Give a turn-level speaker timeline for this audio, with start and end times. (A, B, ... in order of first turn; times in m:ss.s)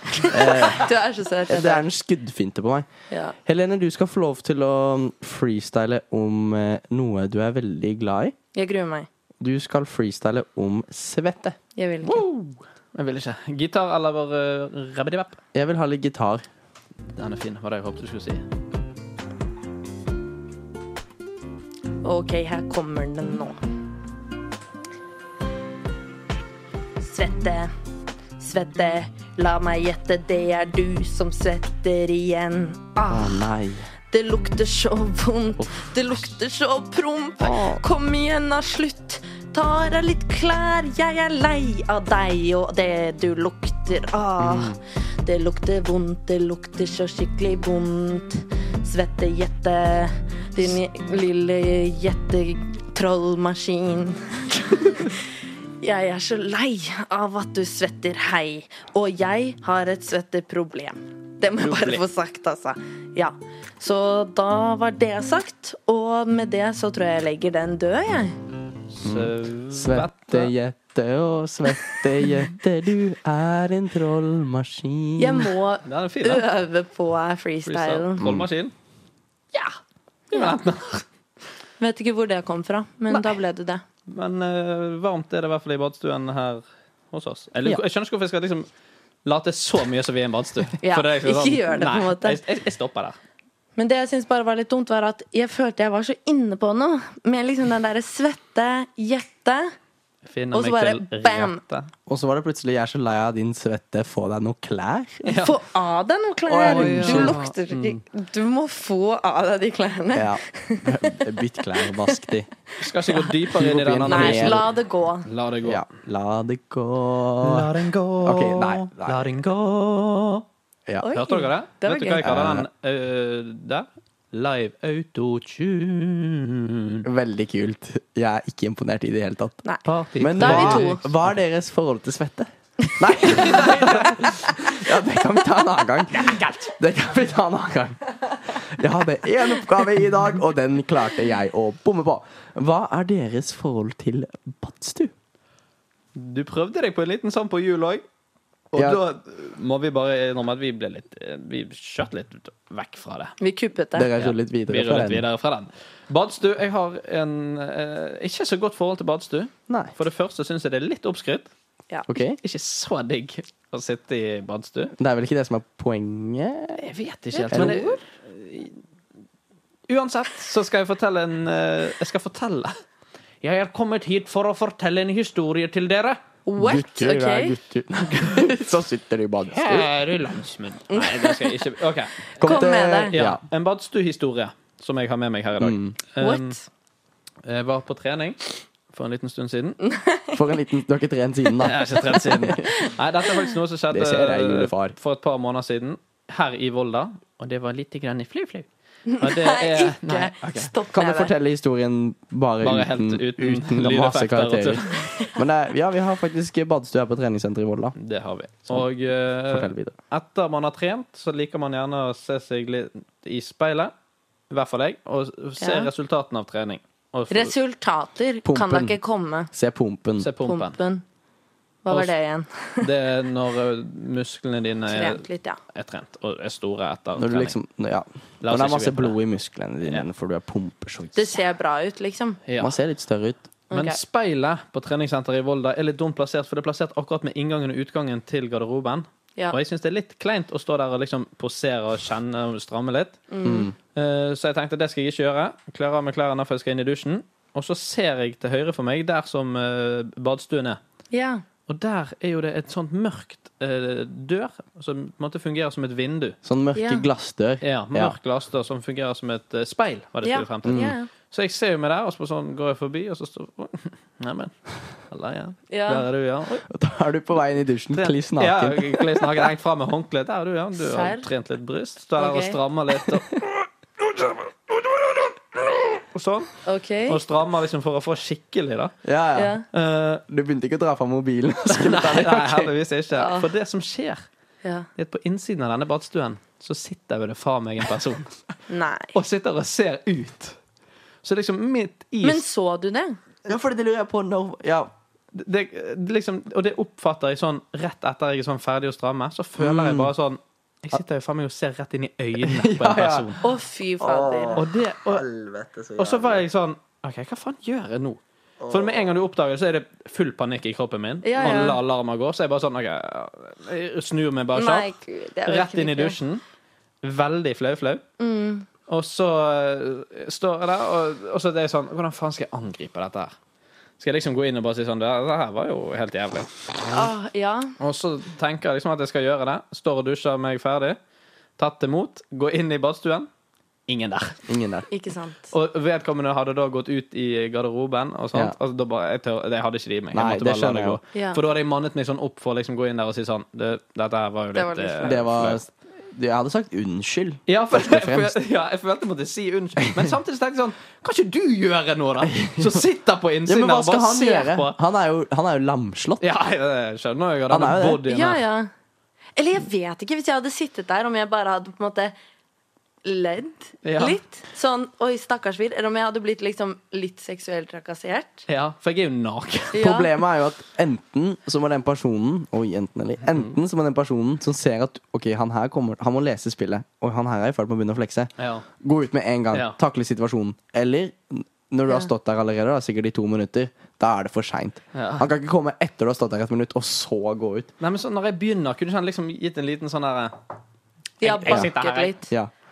0:00.2-0:00.9 A
0:00.2-0:01.8 B
0:01.5-0:02.9 A
0:03.1-0:03.4 B
0:03.4-0:08.3 A
0:08.5-0:09.1 B
0:09.4-0:11.6 A
0:11.8-0:12.2 B
0:12.0-0:15.4 C
0:15.5-0:16.4 A
0:17.1-0:18.4 C
0:22.0-0:23.6 B
0:27.0-0:27.7 B
0:28.4-0:33.5 B
0:33.1-0:33.9 A
0:34.1-0:55.3 B
0:35.6-0:35.9 A
0:44.4-0:44.7 A
0:55.8-1:08.4 B
1:01.6-1:02.0 C
1:08.9-1:10.5 C
1:09.0-1:15.5 A
1:15.2-1:18.2 B
1:15.8-1:16.4 C
1:17.6-1:18.7 C
1:18.2-1:18.5 A
1:20.3-1:20.6 B
1:20.3-1:21.0 C
1:21.8-1:23.8 B
1:23.1-1:23.4 C
1:24.1-1:28.7 C
1:29.2-1:33.2 C
1:30.8-1:32.4 B
1:33.8-1:39.7 B
1:40.2-1:41.9 C
1:40.5-1:41.6 B
1:42.1-1:45.2 A
1:45.2-1:45.6 C
1:45.4-1:51.2 B
1:46.4-1:47.4 A
1:46.6-1:48.0 C
1:50.1-1:52.5 A
1:51.8-1:52.2 B
1:52.8-1:54.7 C
1:53.5-1:54.6 A
1:54.0-1:55.3 B
1:55.2-1:55.8 C
1:55.6-1:59.2 A
1:57.4-2:00.4 C
2:01.0-2:02.2 B
2:01.1-2:07.0 C
2:02.2-2:02.6 A
2:07.0-2:09.6 A
2:09.8-2:11.1 C
2:10.2-2:25.1 A
2:10.4-2:11.0 B
2:12.8-2:14.6 B
2:13.5-2:14.0 C
2:16.1-2:16.7 C
2:26.1-2:28.0 C
2:28.7-2:33.4 C
2:28.7-2:29.0 A
2:33.4-2:34.1 B
2:33.9-2:35.2 A
2:34.2-2:41.5 C
2:42.1-2:42.4 A
2:42.4-2:44.9 C
2:45.0-2:46.8 A
2:46.8-2:48.8 C
2:47.3-2:48.0 B
2:47.5-2:47.8 A
2:49.9-2:52.7 C
2:53.4-2:56.2 C
2:56.4-2:57.6 B
2:56.6-2:59.9 A
2:59.5-3:06.6 C
3:00.9-3:01.6 B
3:02.4-3:03.2 B
3:02.4-3:03.4 A
3:05.6-3:06.0 A
3:06.2-3:06.6 B
3:07.4-3:09.8 C
3:09.8-3:10.4 B
3:10.3-3:12.6 A
3:11.6-3:20.7 C
3:13.9-3:14.9 A
3:19.1-3:21.3 B
3:20.9-3:28.0 A
3:22.6-3:25.0 C
3:28.0-3:33.9 C
3:29.5-3:29.9 A
3:34.5-3:37.5 C
3:35.6-3:35.9 B
3:37.3-3:39.5 B
3:38.4-3:39.0 A
3:39.5-3:40.3 A
3:40.2-3:40.8 C
3:40.4-3:41.0 B
3:41.8-3:42.9 B
3:42.8-3:47.5 C
3:44.9-3:45.6 B
3:47.2-3:51.4 A
3:48.4-3:49.2 C
3:51.1-3:52.4 B
3:52.4-3:52.8 C
3:52.6-3:53.5 A
3:53.7-3:54.0 B
3:53.7-4:03.2 C
4:03.3-4:03.7 B
4:03.4-4:03.7 A
4:03.9-4:10.8 C
4:11.1-4:11.4 B
4:11.7-4:16.4 C
4:16.4-4:18.1 A
4:16.7-4:17.0 B
4:17.6-4:24.5 C
4:20.2-4:21.1 B
4:20.6-4:21.0 A
4:25.1-4:26.6 C
4:25.7-4:26.0 B
4:26.6-4:29.5 A
4:27.9-4:33.4 C
4:30.8-4:31.3 B
4:32.2-4:32.6 B
4:35.7-4:36.5 C
4:36.6-4:37.2 B
4:37.1-4:38.9 C
4:39.0-4:39.5 A
4:39.4-4:39.6 B
4:39.7-4:40.2 C
4:40.3-4:42.7 A
4:41.7-4:44.2 C
4:43.1-4:43.5 B
4:44.6-4:44.9 B
4:45.0-4:48.4 C
4:48.7-4:49.1 B
4:49.1-4:50.6 C
4:51.2-4:52.4 C
4:52.2-4:53.2 B
4:53.4-4:54.9 A
4:55.3-5:03.4 C
4:59.6-5:00.1 A
5:02.4-5:03.3 A
5:03.4-5:04.6 B
5:04.0-5:06.4 A
5:04.6-5:05.2 C
5:06.0-5:14.9 C
5:08.6-5:09.1 A
5:11.2-5:11.8 B
5:14.5-5:16.2 B
5:15.4-5:16.4 C
5:17.0-5:18.0 C
5:18.2-5:18.7 B
5:18.9-5:23.3 C
5:24.0-5:27.1 C
5:26.9-5:27.8 B
5:27.8-5:31.0 C
5:31.6-5:33.3 C
5:33.9-5:34.4 C
5:34.5-5:34.9 A
5:34.9-5:35.5 B
5:35.5-5:45.6 C
5:40.1-5:41.0 A
5:41.1-5:41.4 B
5:44.5-5:45.2 B
5:45.0-5:48.4 A
5:47.5-5:54.8 C
5:52.2-5:52.8 A
5:53.4-5:56.2 A
5:56.2-5:58.4 C
5:57.5-5:58.0 A
5:58.1-5:58.7 B
5:59.4-6:02.1 B
6:03.0-6:08.4 B
6:03.8-6:04.2 C
6:08.5-6:09.8 C
6:09.7-6:10.1 B
6:09.8-6:27.7 A
6:18.4-6:18.6 C
6:19.5-6:19.8 C
6:24.9-6:25.3 C
6:27.8-6:30.3 C
6:31.2-6:32.3 B
6:31.2-6:32.1 C